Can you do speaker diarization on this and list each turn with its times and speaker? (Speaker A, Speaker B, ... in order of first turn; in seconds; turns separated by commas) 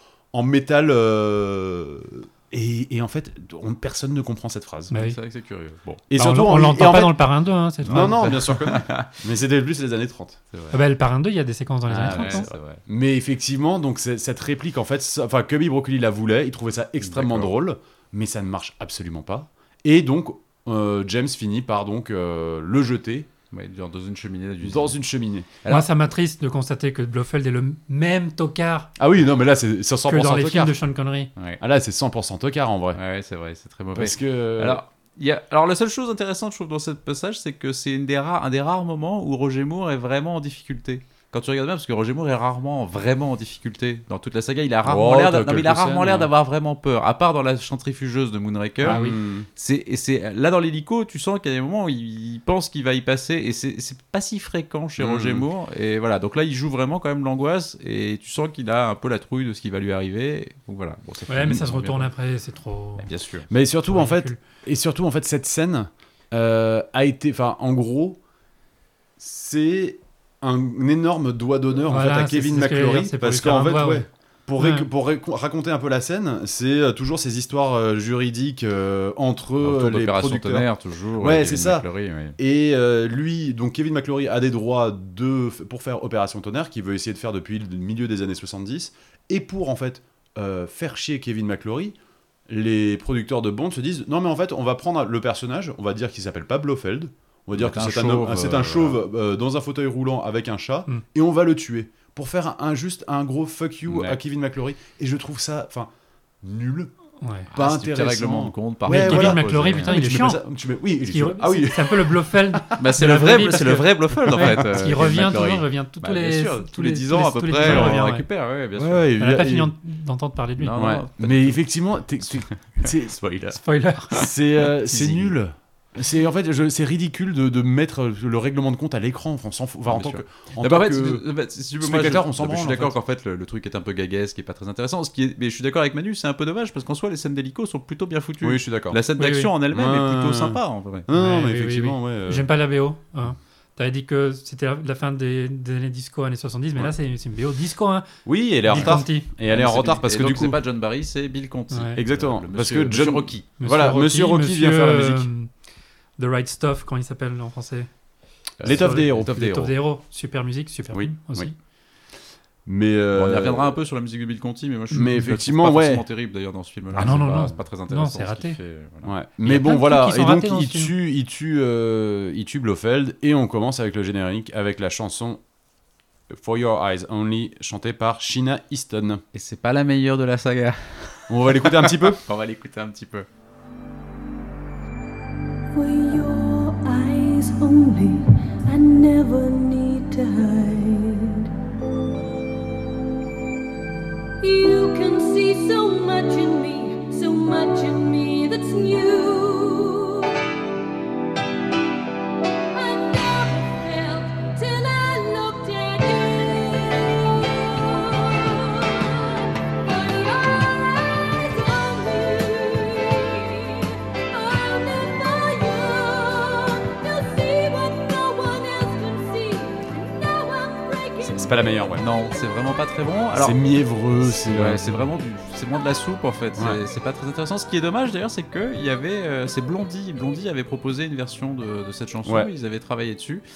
Speaker A: 0.3-4.9, Speaker B: 4.9-5.2, Speaker C: 4.9-6.0, Speaker A: 6.1-7.2, Speaker B: 6.2-8.4, Speaker A: 7.8-10.4, Speaker C: 7.8-9.1, Speaker C: 10.5-10.8, Speaker B: 10.7-12.5, Speaker C: 11.9-12.8, Speaker A: 12.0-23.3, Speaker C: 17.0-17.5, Speaker C: 23.5-25.0, Speaker A: 24.6-25.5, Speaker C: 25.6-25.9, Speaker B: 25.7-28.9, Speaker A: 29.0-30.8, Speaker B: 30.1-31.3, Speaker A: 31.6-33.0, Speaker C: 32.9-62.1, Speaker A: 34.0-34.8, Speaker A: 44.9-46.3, Speaker A: 48.8-49.5, Speaker B: 48.9-49.2, Speaker A: 55.0-55.5, Speaker B: 61.3-63.1, Speaker C: 63.0-63.5, Speaker A: 63.5-68.2, Speaker B: 63.9-64.4, Speaker A: 69.2-80.7, Speaker B: 71.9-74.1, Speaker B: 74.6-74.9, Speaker C: 79.6-82.4, Speaker A: 81.2-92.0, Speaker A: 92.5-105.9, Speaker C: 97.5-99.0, Speaker C: 103.9-104.2, Speaker A: 106.4-106.9, Speaker B: 107.2-107.5, Speaker A: 107.5-112.9, Speaker C: 107.5-110.0, Speaker B: 108.9-110.4, Speaker B: 111.1-118.2, Speaker C: 112.8-119.1, Speaker A: 114.3-114.7, Speaker A: 117.7-118.0, Speaker A: 118.8-119.7, Speaker B: 119.2-120.8, Speaker C: 120.6-121.6, Speaker A: 120.8-123.6, Speaker C: 122.2-123.0, Speaker B: 123.5-124.2, Speaker C: 124.1-125.3, Speaker A: 124.1-131.2, Speaker C: 129.9-141.1, Speaker A: 131.8-132.9, Speaker A: 138.4-139.0, Speaker B: 139.2-139.5, Speaker A: 139.7-142.5, Speaker B: 141.1-149.3, Speaker A: 148.3-150.6, Speaker C: 148.7-153.5, Speaker B: 151.7-152.0, Speaker A: 152.0-155.3, Speaker B: 153.6-155.5, Speaker B: 156.2-157.9, Speaker C: 158.6-159.5, Speaker A: 158.6-159.7, Speaker B: 158.6-161.5, Speaker A: 160.9-161.5, Speaker A: 162.7-163.8, Speaker C: 163.1-169.1, Speaker B: 164.9-165.2, Speaker A: 164.9-166.0, Speaker B: 167.0-168.6, Speaker A: 169.1-175.4, Speaker B: 169.4-170.9, Speaker A: 176.3-179.2, Speaker C: 179.3-183.3, Speaker A: 181.3-182.2, Speaker D: 185.7-191.5, Speaker D: 194.4-200.4, Speaker D: 202.7-221.6, Speaker A: 221.3-222.1, Speaker C: 222.0-223.6, Speaker A: 223.3-225.1, Speaker C: 224.2-233.4, Speaker A: 232.3-232.5